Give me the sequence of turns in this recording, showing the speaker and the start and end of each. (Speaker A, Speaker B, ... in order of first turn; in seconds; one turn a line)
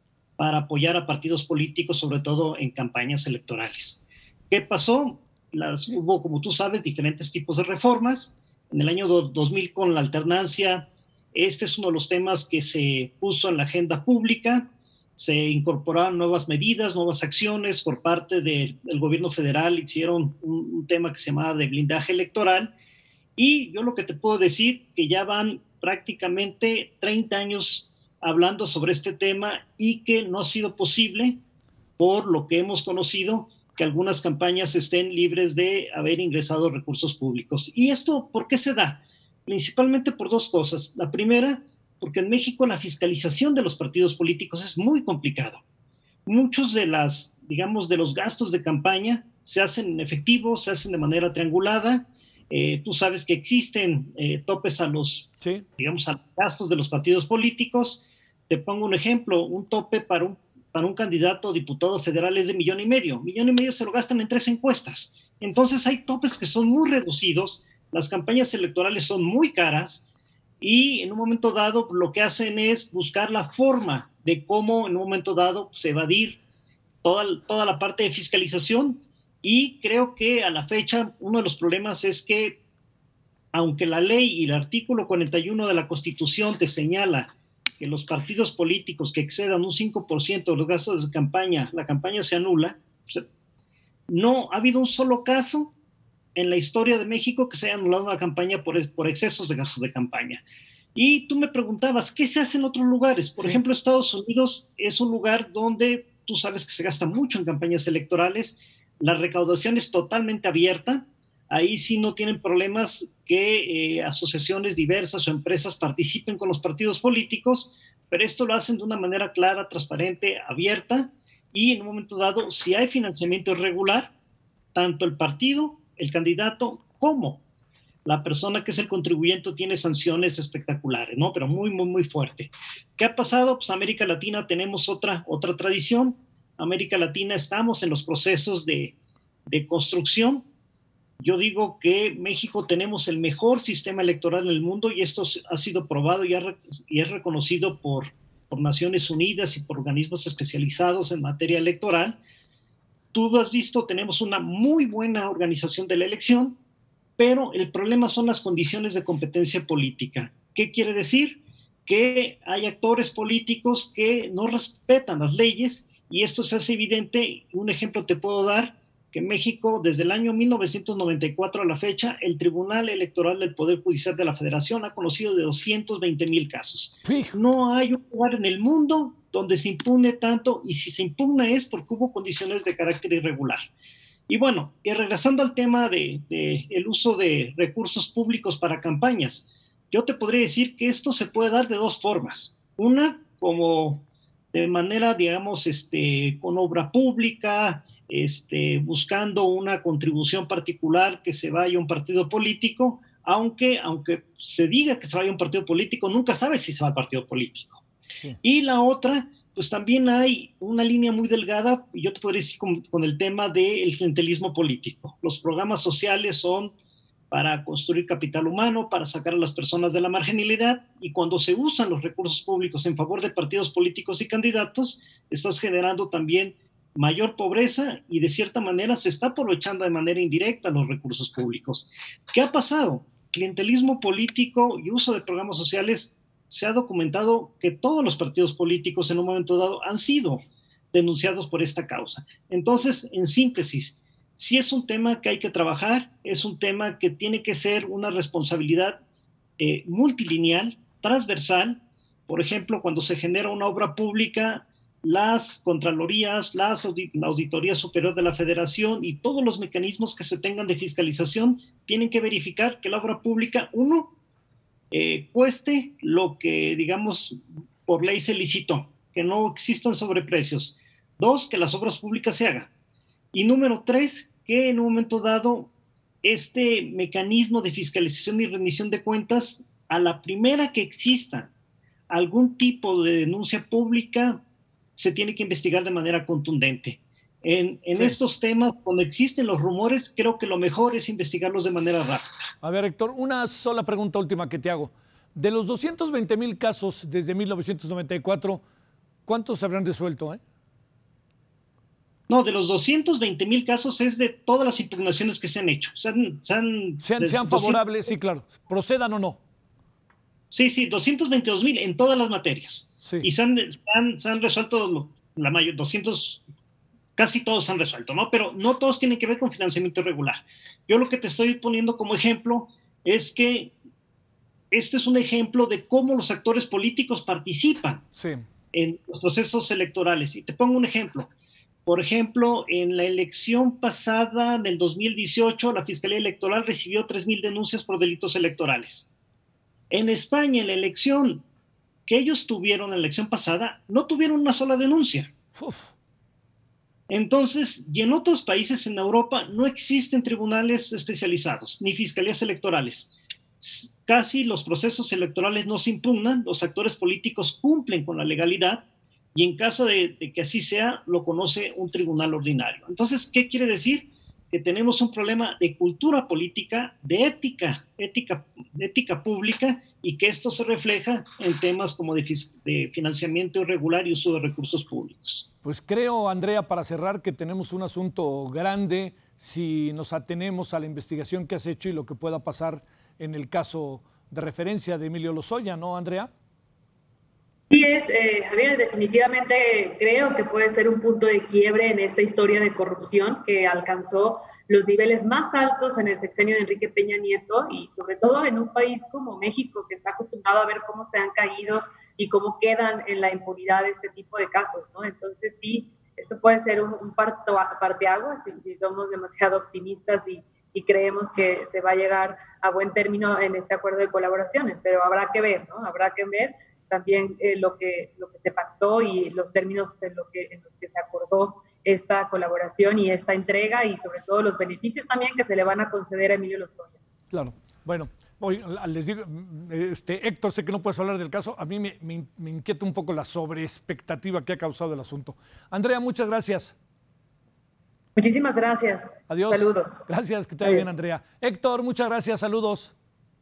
Speaker A: 0.4-22.7
Speaker A: 23.4-31.4
Speaker A: 32.0-45.6
Speaker A: 46.2-70.0
Speaker B: 55.4-55.6
Speaker A: 70.6-76.4
Speaker A: 77.0-82.6
Speaker A: 83.5-93.2
Speaker A: 94.1-95.7
Speaker A: 96.3-100.4
Speaker A: 100.9-124.1
Speaker A: 124.7-127.4
Speaker A: 128.1-138.9
Speaker A: 139.5-140.4
Speaker A: 141.2-152.2
Speaker A: 153.1-156.6
Speaker A: 157.2-183.6
Speaker B: 177.0-177.3
Speaker A: 184.3-207.8
Speaker A: 208.4-216.7
Speaker A: 217.3-240.4
Speaker A: 240.9-249.0
Speaker A: 249.6-264.1
Speaker A: 264.9-272.7
Speaker A: 273.3-275.7
Speaker A: 276.2-281.5
Speaker A: 282.1-284.4
Speaker A: 284.9-292.3
Speaker B: 292.6-298.6
Speaker B: 299.2-300.4
Speaker A: 302.3-307.8
Speaker B: 307.0-309.4
Speaker A: 310.5-316.4
Speaker A: 317.1-323.7
Speaker A: 324.7-328.1
Speaker B: 328.1-328.4
Speaker A: 328.7-331.3
Speaker A: 331.9-339.1
Speaker A: 339.9-341.4
Speaker A: 342.1-345.3
Speaker B: 345.5-345.9
Speaker A: 347.1-375.4
Speaker B: 375.6-386.3
Speaker C: 387.7-427.0
Speaker B: 427.3-436.7
Speaker C: 438.1-440.1
Speaker B: 439.3-442.9
Speaker C: 440.6-440.9